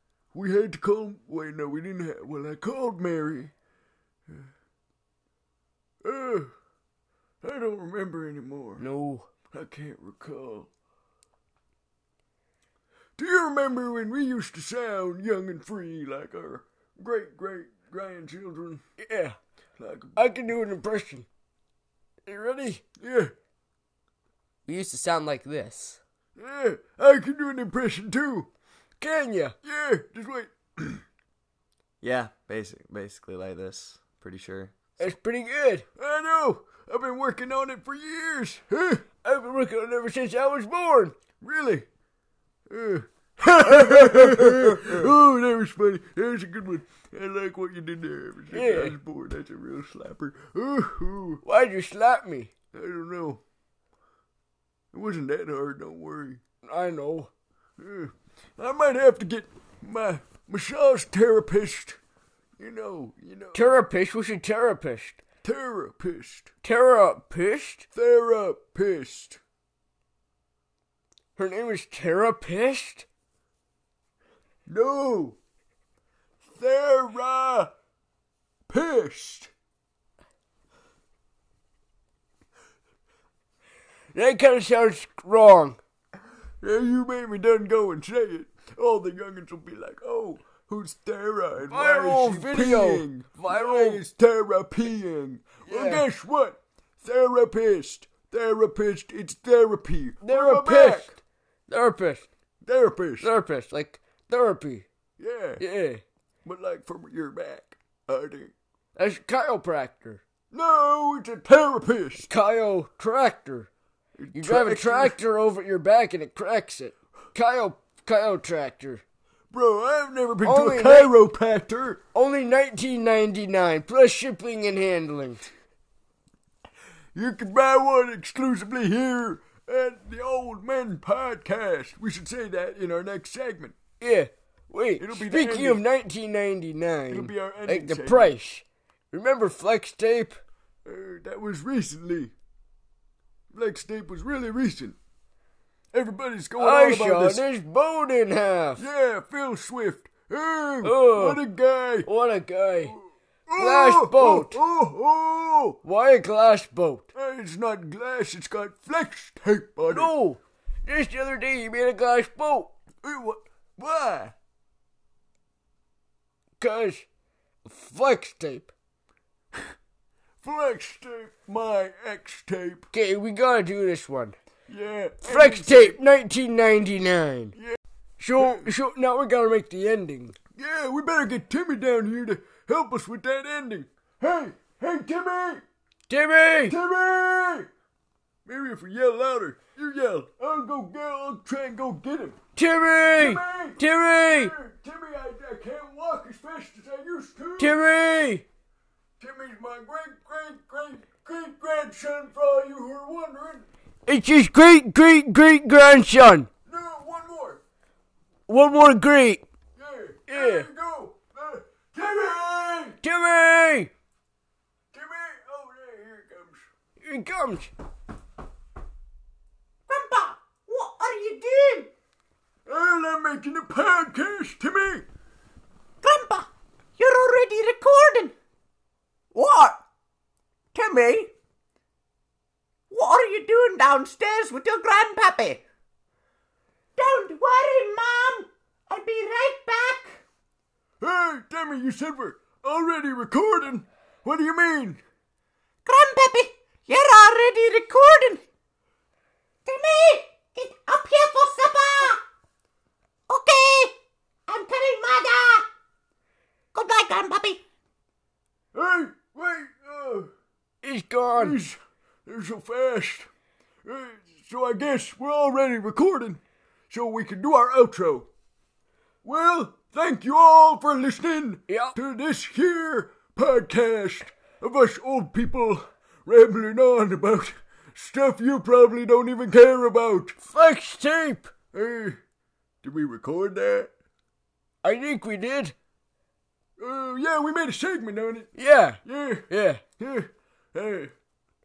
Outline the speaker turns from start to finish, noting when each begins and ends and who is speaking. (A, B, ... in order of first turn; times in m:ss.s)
0:00.3-0:03.5 A
0:06.0-0:06.5 A
0:07.4-0:08.9 A
0:08.8-0:09.3 B
0:09.5-0:10.7 A
0:13.2-0:18.8 A
0:19.0-0:19.4 B
0:19.8-0:20.2 A
0:20.2-0:21.3 B
0:22.3-0:22.8 B
0:23.0-0:23.3 A
0:24.7-0:26.0 B
0:26.4-0:28.5 A
0:29.0-0:29.6 B
0:29.6-0:31.0 A
0:32.0-0:34.7 C
0:35.0-0:35.8 B
0:36.0-0:39.0 A
0:39.2-0:41.2 B
0:41.4-0:41.9 A
0:42.7-0:51.4 A
0:43.5-0:45.1 B
0:48.5-0:49.0 B
0:51.4-0:52.5 B
0:52.7-0:53.4 A
0:54.9-0:56.4 A
0:56.6-0:57.3 B
0:57.8-1:02.0 A
1:02.6-1:03.8 A
1:03.5-1:05.2 B
1:05.4-1:06.5 A
1:06.6-1:07.9 B
1:07.9-1:09.4 A
1:11.4-1:13.1 B
1:14.7-1:15.4 A
1:16.6-1:17.7 A
1:18.7-1:19.5 A
1:24.1-1:25.8 B
1:26.6-1:41.2 A
1:31.7-1:34.0 B
1:35.6-1:36.0 B
1:40.2-1:42.3 B
1:42.6-1:43.3 A
1:43.2-1:44.9 B
1:45.2-1:45.6 A
1:45.6-1:46.0 B
1:46.4-1:48.5 A
1:49.0-1:50.2 B
1:50.5-1:52.3 A
1:52.2-1:53.7 B
1:54.2-1:55.2 A
1:54.3-1:59.0 B
1:59.5-2:02.0 A
2:00.4-2:01.1 B
2:02.1-2:05.5 B
2:07.2-2:13.8 A
2:14.0-2:20.4 B
2:15.0-2:15.8 A
2:17.1-2:18.4 A
2:20.8-2:22.3 A
2:23.5-2:25.0 A
2:25.9-2:27.4 A
2:26.6-2:28.8 B
2:28.8-2:32.1 A
2:30.8-2:31.4 B
2:32.0-2:33.0 B
2:33.5-2:35.8 A
2:33.6-2:34.6 B
2:35.8-2:37.1 B
2:37.1-2:40.2 A
2:39.8-2:42.7 B
2:43.0-2:44.4 A
2:46.6-2:47.1 B
2:47.6-2:48.7 B
2:50.4-2:52.9 A
2:52.9-2:54.4 B
2:54.7-2:56.0 A
2:55.2-2:57.5 B
2:58.2-3:00.4 B
2:58.4-2:58.7 A
3:00.6-3:05.6 A
3:06.1-3:06.8 B
3:06.7-3:07.7 A
3:08.4-3:12.4 A
3:12.6-3:14.6 B
3:13.2-3:17.9 A
3:17.6-3:18.5 B
3:19.2-3:23.7 A
3:24.1-3:26.5 B
3:26.7-3:27.6 A
3:28.5-3:29.4 B
3:29.8-3:33.0 A
3:30.3-3:30.7 B
3:33.0-3:33.9 B
3:34.9-3:36.7 A
3:37.0-3:37.7 B
3:39.9-3:41.9 D
3:42.7-3:45.0 A
3:46.0-3:48.3 D
3:49.3-3:49.8 D
3:50.7-3:51.3 D
3:52.9-3:55.6 D
3:57.0-4:00.2 D
4:01.0-4:05.0 A
4:05.9-4:08.4 D
4:09.7-4:12.2 D
4:13.3-4:14.0 D
4:14.5-4:15.7 D
4:16.7-4:17.6 D
4:18.7-4:20.3 A
4:20.8-4:21.6 B
4:21.3-4:23.3 A
4:23.8-4:28.3 A
4:29.2-4:40.4 A
4:31.7-4:31.9 B
4:40.5-4:41.5 B
4:41.7-4:42.2 A
4:42.8-4:43.9 A
4:44.8-4:45.8 B
4:46.8-4:48.5 A
4:48.6-4:49.8 B
4:49.0-4:49.5 A
4:50.0-4:51.1 A